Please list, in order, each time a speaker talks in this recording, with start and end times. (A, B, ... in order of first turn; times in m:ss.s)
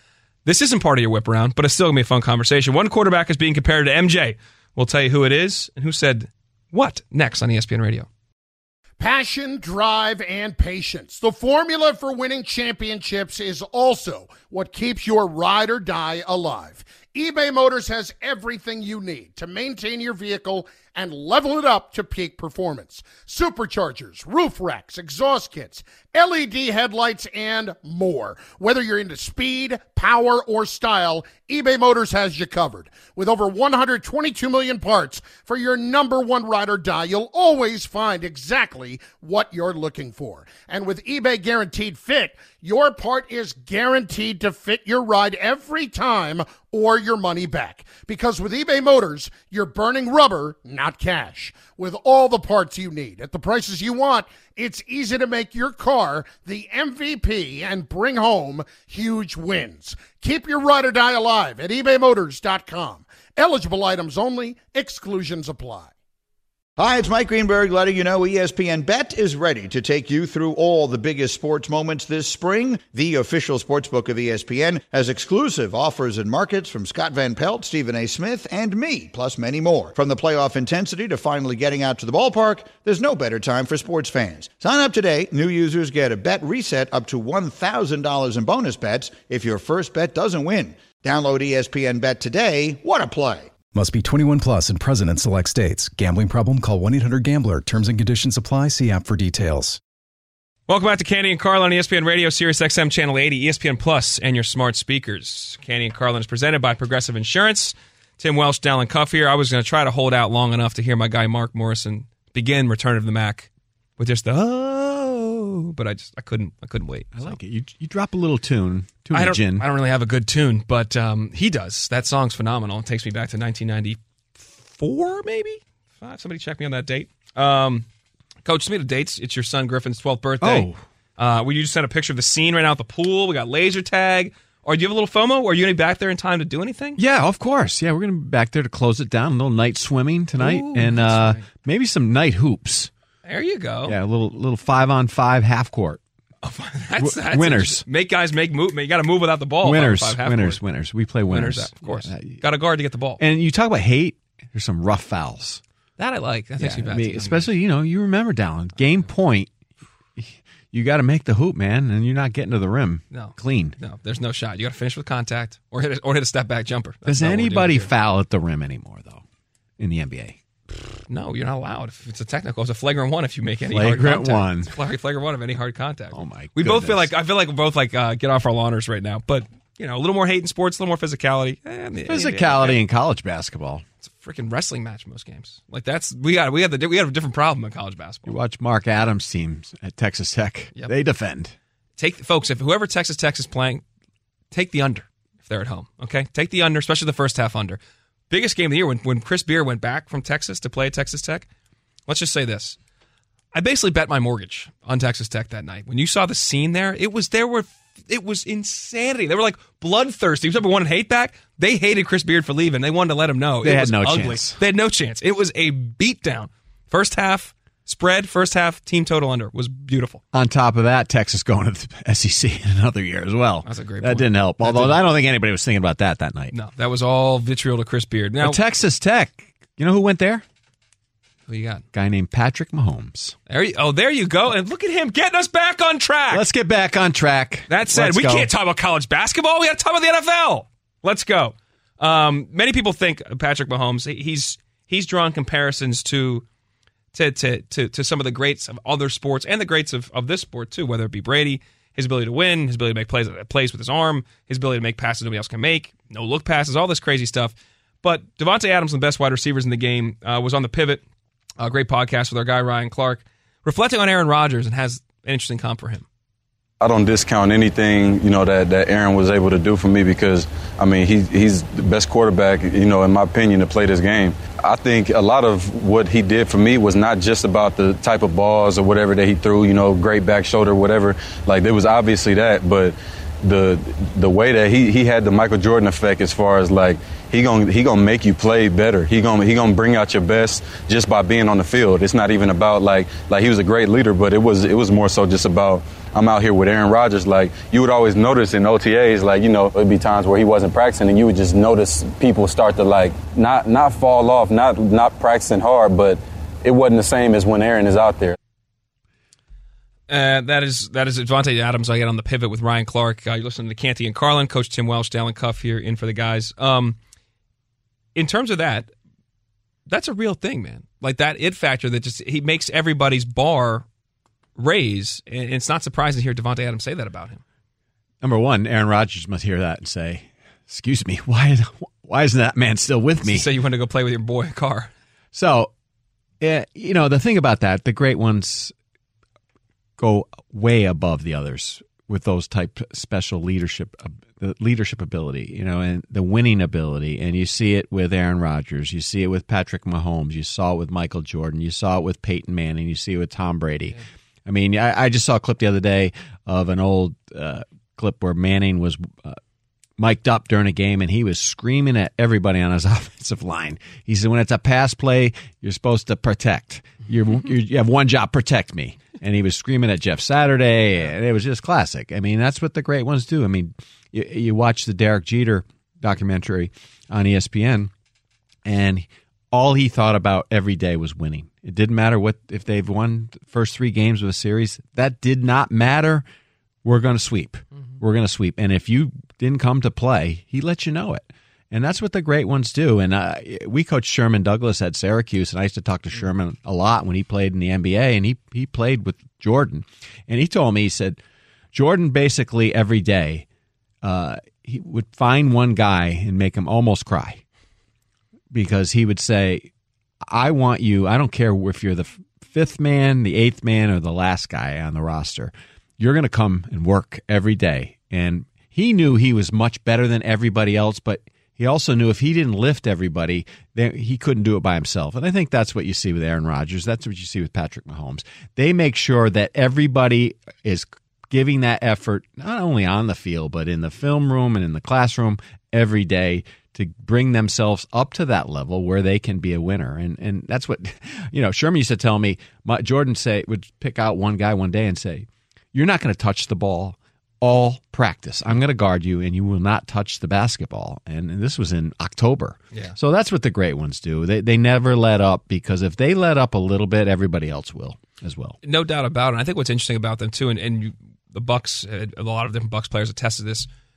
0:00.4-0:08.1 A
0:09.0-1:05.9 B
1:06.8-1:33.5 C
1:33.7-1:39.8 D
1:40.7-1:53.5 A
1:54.0-1:57.4 A
1:57.1-1:59.7 E
1:59.1-2:07.9 A
2:08.4-2:17.0 A
2:10.4-2:10.8 E
2:17.0-2:22.9 E
2:20.4-2:21.4 A
2:23.2-2:24.0 A
2:23.8-2:26.0 E
2:26.4-2:30.6 A
2:27.0-2:27.8 E
2:29.6-2:32.4 E
2:31.3-2:33.2 A
2:33.2-2:35.6 E
2:36.0-2:37.5 A
2:36.6-2:39.5 E
2:40.2-2:43.8 E
2:43.1-2:47.9 A
2:47.0-2:49.2 E
2:49.8-2:50.4 E
2:51.1-3:02.8 A
2:53.7-2:54.7 E
2:56.1-2:57.1 E
3:02.0-3:03.8 E
3:04.0-3:08.3 A
3:08.2-3:11.5 E
3:12.0-3:13.8 A
3:14.5-3:17.8 A
3:18.3-3:21.5 A
3:22.1-3:22.8 A
3:23.5-3:40.2 A
3:33.6-3:34.6 E
3:40.3-3:46.5 E
3:43.6-3:45.0 A
3:46.5-3:48.6 A
3:48.4-3:50.4 E
3:51.5-3:51.8 A
3:51.9-3:53.3 E
3:53.5-3:56.4 A
3:56.3-3:58.5 E
3:57.7-4:06.4 A
4:07.1-4:21.0 A
4:21.6-4:26.0 A
4:26.8-5:08.4 F
5:10.1-5:17.0 A
5:18.1-5:18.9 A
5:19.9-5:23.8 A
5:24.6-5:27.4 A
5:28.2-5:33.5 E
5:33.2-5:34.9 A
5:35.3-5:35.7 E
5:36.4-5:38.7 E
5:40.0-5:59.4 E
6:00.0-6:17.9 E
6:18.6-6:26.2 E
6:26.8-6:41.2 E
6:41.7-6:43.4 E
6:44.0-6:47.4 E
6:48.5-6:49.7 E
6:50.3-7:38.6 E
7:38.6-7:43.7 A